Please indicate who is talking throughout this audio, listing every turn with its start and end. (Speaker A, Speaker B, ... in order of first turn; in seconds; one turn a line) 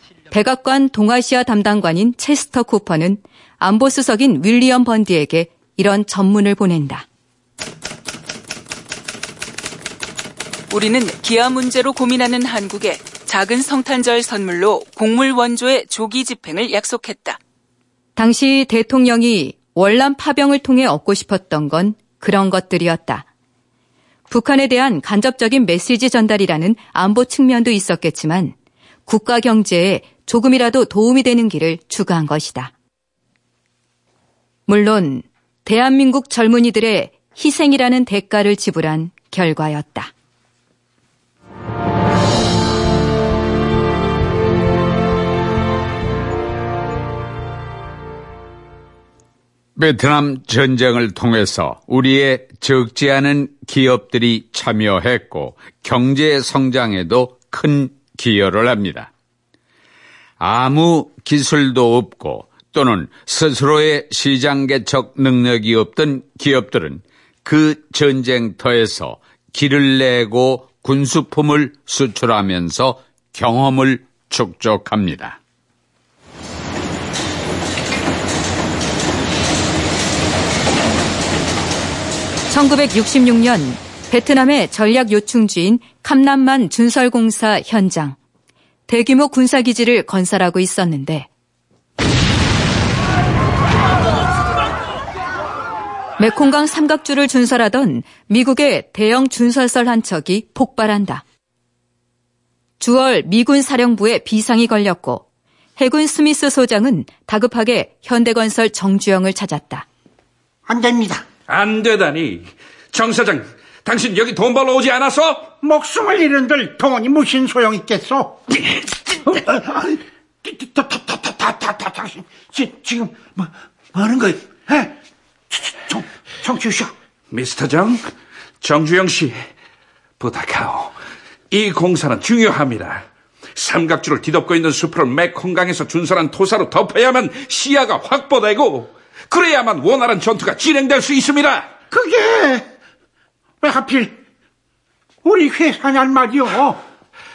Speaker A: 0.3-7.0
Speaker B: 10.7-17.4
Speaker A: 18.2-23.3
Speaker A: 24.3-28.6
Speaker A: 29.1-32.7
Speaker A: 34.7-40.1
Speaker C: 49.8-59.1
Speaker C: 60.4-75.4
Speaker A: 82.5-88.2
Speaker A: 88.9-91.3
Speaker A: 96.2-101.2
Speaker A: 102.8-105.2
Speaker A: 105.8-109.9
Speaker D: 110.7-111.3
Speaker E: 111.5-115.5
Speaker D: 115.6-125.0
Speaker D: 125.5-126.9
Speaker E: 127.3-129.5
Speaker E: 130.2-130.9
Speaker E: 131.5-133.1
Speaker E: 133.6-141.7
Speaker D: 141.9-142.7
Speaker D: 143.6-144.2
Speaker D: 145.2-146.8